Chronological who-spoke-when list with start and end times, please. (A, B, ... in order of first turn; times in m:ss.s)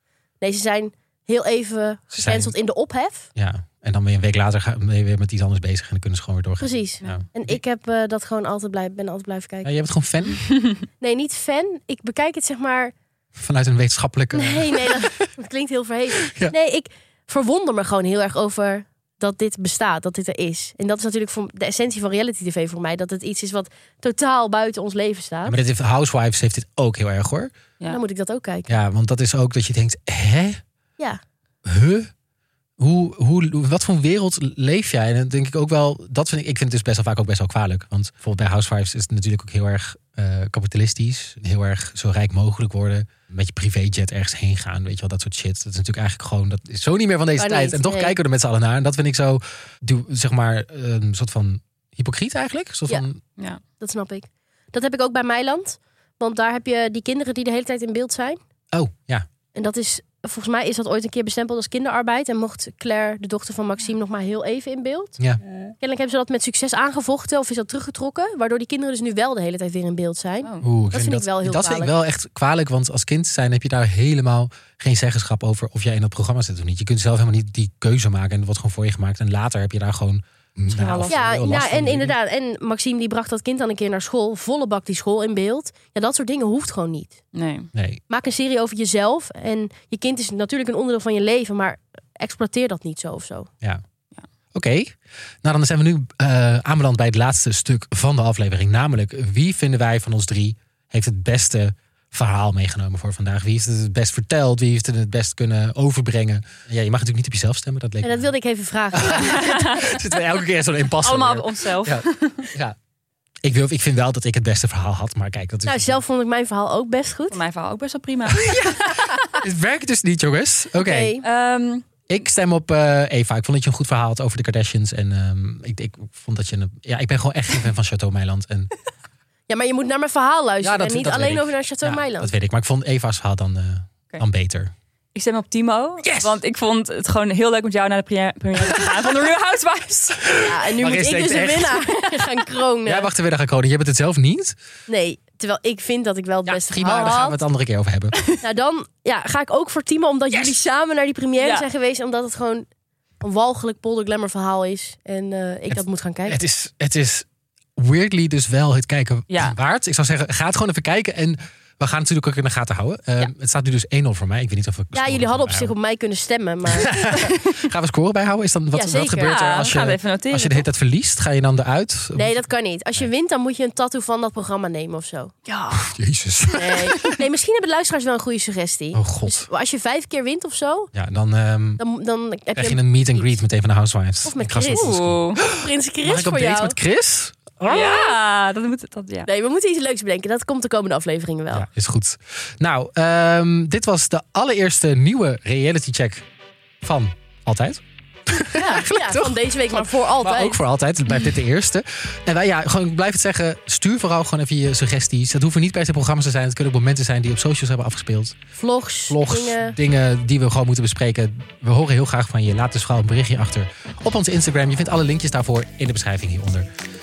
0:00.4-0:03.3 A
0:02.1-0:02.5 B
0:03.4-0:07.6 B
0:06.6-0:09.7 A
0:09.6-0:10.4 B
0:11.0-0:12.9 A
0:13.4-0:15.3 B
0:14.3-0:25.6 A
0:16.1-0:16.5 B
0:25.4-0:27.6 B
0:27.9-0:28.7 A
0:28.7-0:30.6 B
0:31.6-0:32.1 B
0:32.8-0:53.2 B
0:47.4-0:48.2 A
0:53.8-0:58.4 A
0:58.7-0:59.3 B
0:59.5-1:05.2 A
1:05.8-1:11.9 A
1:10.6-1:22.1 B
1:20.7-1:27.2 A
1:27.3-1:27.7 C
1:27.7-1:28.0 B
1:28.1-1:33.5 A
1:34.5-1:48.3 B
1:48.0-1:49.6 A
1:48.9-1:52.8 B
1:49.3-1:49.9 C
1:51.0-1:52.5 C
1:53.4-1:56.0 B
1:55.6-1:57.4 A
1:57.3-1:59.4 C
1:58.3-2:01.2 B
2:00.8-2:01.3 A
2:01.2-2:01.9 C
2:02.1-2:08.7 B
2:09.5-2:12.3 A
2:10.6-2:14.7 B
2:15.2-2:20.2 C
2:16.0-2:16.4 B
2:20.2-2:22.0 B
2:20.4-2:23.1 A
2:22.8-2:24.6 B
2:24.9-2:27.4 A
2:26.5-2:28.2 B
2:28.4-2:32.7 A
2:31.4-2:31.7 C
2:33.2-2:36.4 A
2:35.7-2:45.7 B
2:39.3-2:39.6 C
2:44.9-2:47.3 A
2:46.7-2:52.4 B
2:48.7-2:49.4 A
2:49.2-2:50.7 C
2:52.2-2:55.9 A
2:55.7-2:57.2 B
2:56.6-3:00.9 A
2:58.9-2:59.5 B
3:00.9-3:01.8 B
3:01.8-3:03.4 A
3:02.6-3:05.5 B
3:04.2-3:06.8 A
3:04.6-3:05.4 C
3:06.0-3:08.0 B
3:07.7-3:08.1 A
3:07.7-3:09.3 C
3:09.3-3:11.7 A
3:11.5-3:16.3 B
3:16.8-3:28.4 B
3:18.5-3:20.6 A
3:28.6-3:29.8 A
3:29.1-3:36.7 B